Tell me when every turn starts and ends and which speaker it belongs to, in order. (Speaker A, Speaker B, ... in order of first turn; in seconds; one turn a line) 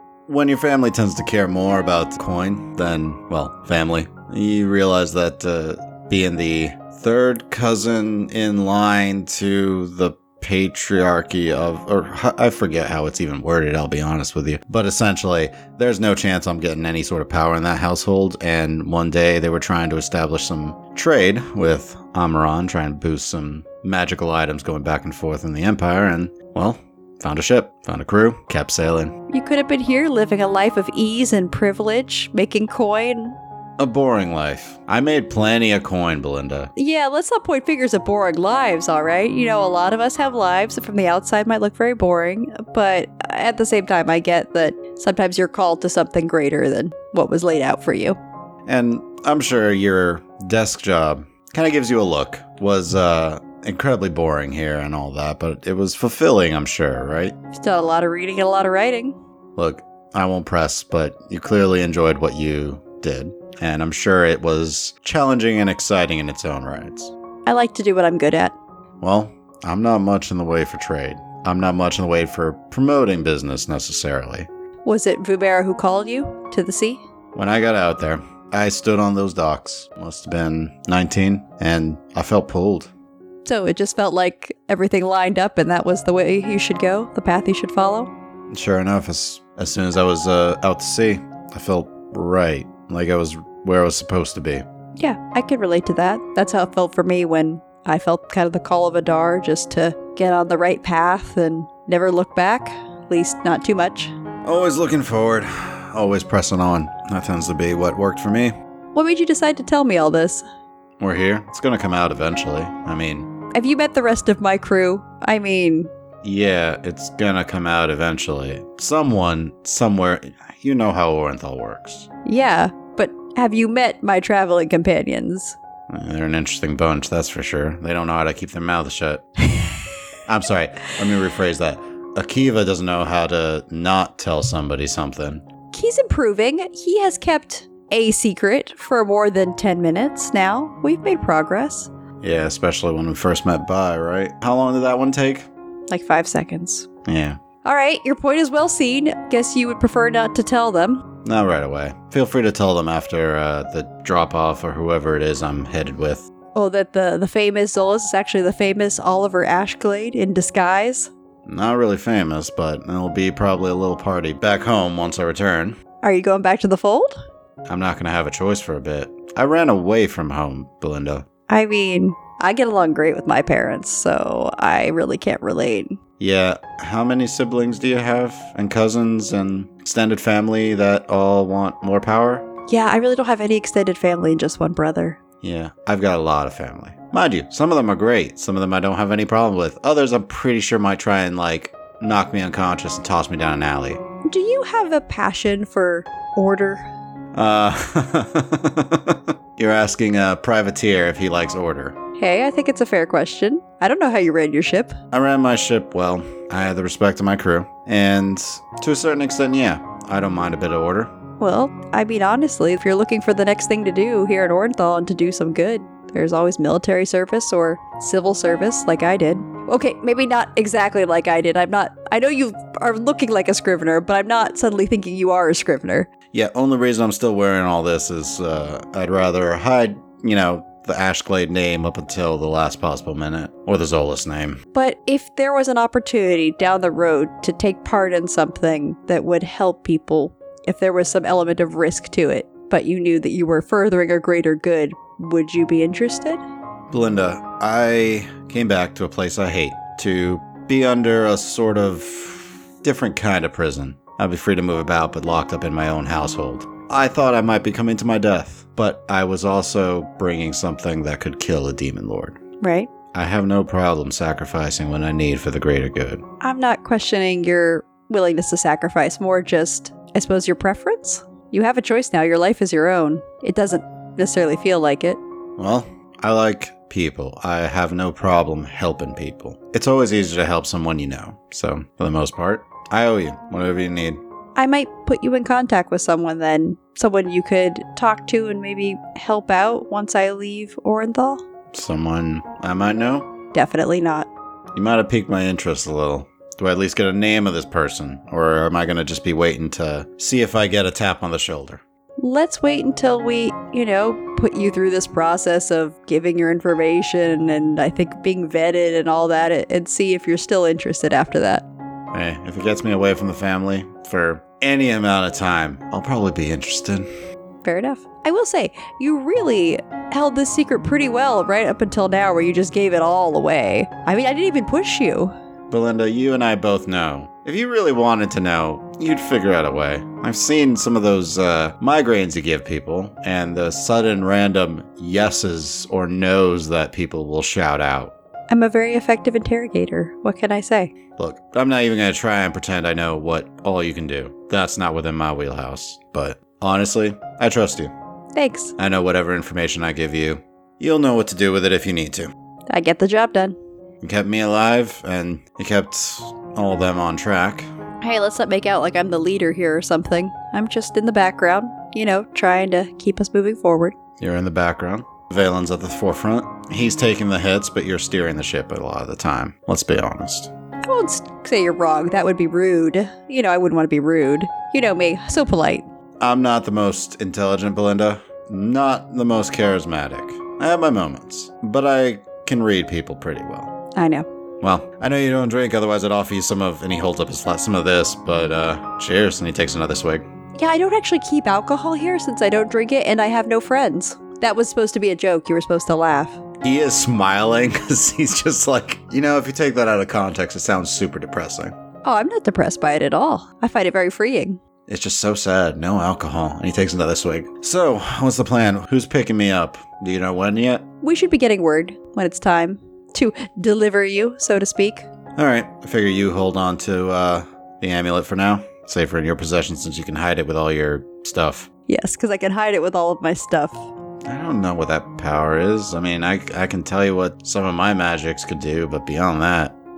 Speaker A: 0.3-29.1
Speaker B: 29.3-33.4
Speaker A: 33.8-36.7
Speaker B: 36.8-48.2
Speaker A: 48.7-57.4
Speaker B: 57.5-59.2
Speaker A: 59.6-67.1
Speaker B: 67.5-68.6
Speaker A: 69.0-74.5
Speaker B: 74.8-77.0
Speaker A: 77.3-82.9
Speaker B: 83.5-88.1
Speaker A: 88.5-94.7
Speaker B: 95.0-104.1
Speaker A: 104.5-108.5
Speaker B: 109.0-110.5
Speaker A: 111.0-113.3
Speaker B: 113.5-115.9
Speaker A: 116.2-122.1
Speaker B: 122.2-125.6
Speaker A: 125.9-129.3
Speaker A: 130.3-135.4
Speaker B: 135.7-141.9
Speaker A: 142.2-145.5
Speaker B: 145.9-146.9
Speaker A: 147.1-147.4
Speaker B: 147.6-151.1
Speaker A: 151.2-156.3
Speaker B: 156.6-161.1
Speaker A: 161.5-165.8
Speaker B: 166.0-167.2
Speaker A: 167.7-171.3
Speaker B: 171.5-176.0
Speaker A: 176.2-182.5
Speaker B: 182.7-185.2
Speaker A: 185.4-194.0
Speaker B: 194.3-196.9
Speaker A: 197.3-202.0
Speaker B: 202.2-205.0
Speaker A: 205.1-211.1
Speaker B: 211.4-226.1
Speaker A: 226.3-234.6
Speaker B: 234.7-246.4
Speaker A: 246.9-262.4
Speaker B: 262.6-262.9
Speaker A: 263.1-266.2
Speaker B: 266.4-275.2
Speaker A: 275.6-284.2
Speaker B: 284.6-291.4
Speaker A: 291.7-293.3
Speaker B: 293.5-294.3
Speaker A: 294.7-301.8
Speaker B: 302.2-311.7
Speaker A: 312.1-317.1
Speaker B: 317.6-325.3
Speaker A: 325.7-338.1
Speaker B: 338.5-340.9
Speaker A: 341.2-347.9
Speaker B: 348.4-348.8
Speaker A: 348.8-352.3
Speaker B: 352.7-353.6
Speaker A: 354.0-357.7
Speaker B: 358.0-363.9
Speaker A: 364.2-370.5
Speaker B: 370.8-375.9
Speaker A: 376.2-383.7
Speaker B: 383.9-384.3
Speaker A: 384.6-390.3
Speaker B: 390.6-396.4
Speaker A: 396.6-401.7
Speaker B: 402.0-404.6
Speaker A: 404.9-410.9
Speaker B: 411.0-415.1
Speaker A: 415.4-421.7
Speaker B: 421.9-423.9
Speaker A: 424.2-429.8